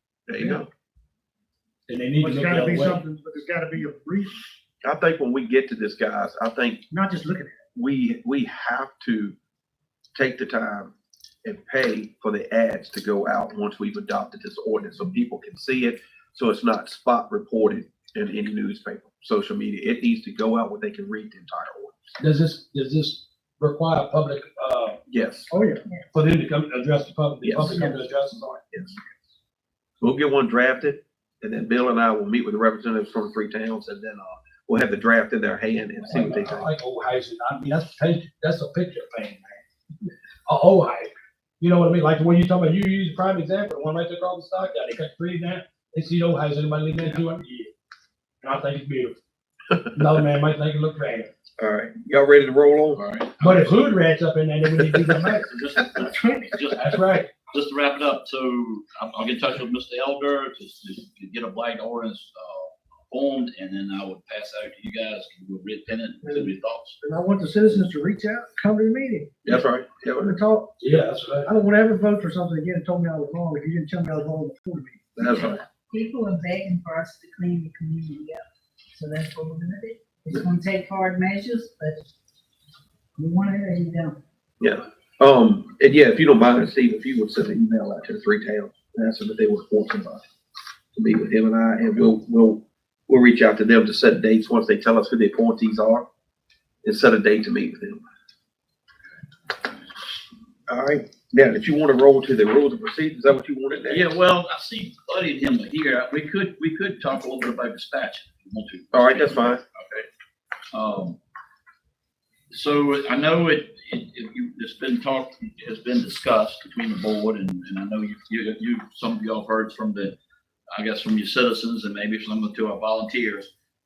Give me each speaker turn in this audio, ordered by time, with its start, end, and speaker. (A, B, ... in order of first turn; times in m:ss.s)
0:00.3-0:00.7 A
0:01.9-0:03.0 B
0:02.2-0:04.5 C
0:04.8-0:06.8 A
0:06.9-0:07.6 C
0:07.8-0:09.4 A
0:10.2-0:10.9 A
0:11.4-0:22.0 A
0:22.2-0:25.0 B
0:25.1-0:25.5 A
0:25.5-0:26.0 C
0:26.1-0:28.6 B
0:27.4-0:27.8 A
0:27.6-0:28.0 C
0:28.7-0:29.0 A
0:30.0-0:36.7 A
0:36.1-0:39.6 B
0:40.5-0:47.7 B
0:48.4-0:49.2 B
0:49.9-0:51.3 B
0:51.6-0:53.6 A
0:52.9-0:53.5 D
0:53.4-0:55.5 B
0:55.5-1:07.0 D
0:56.8-0:57.3 B
1:07.0-1:09.6 C
1:09.4-1:10.4 A
1:10.2-1:10.9 C
1:10.8-1:11.5 B
1:11.4-1:15.2 C
1:15.2-1:15.6 A
1:15.2-1:18.4 E
1:18.9-1:22.0 E
1:23.2-1:24.2 E
1:24.6-1:30.2 A
1:31.0-1:36.1 A
1:36.8-1:38.0 A
1:40.7-1:44.1 A
1:43.9-1:50.1 D
1:48.9-1:49.6 A
1:50.7-1:51.2 D
1:52.5-2:00.2 D
2:00.7-2:03.5 D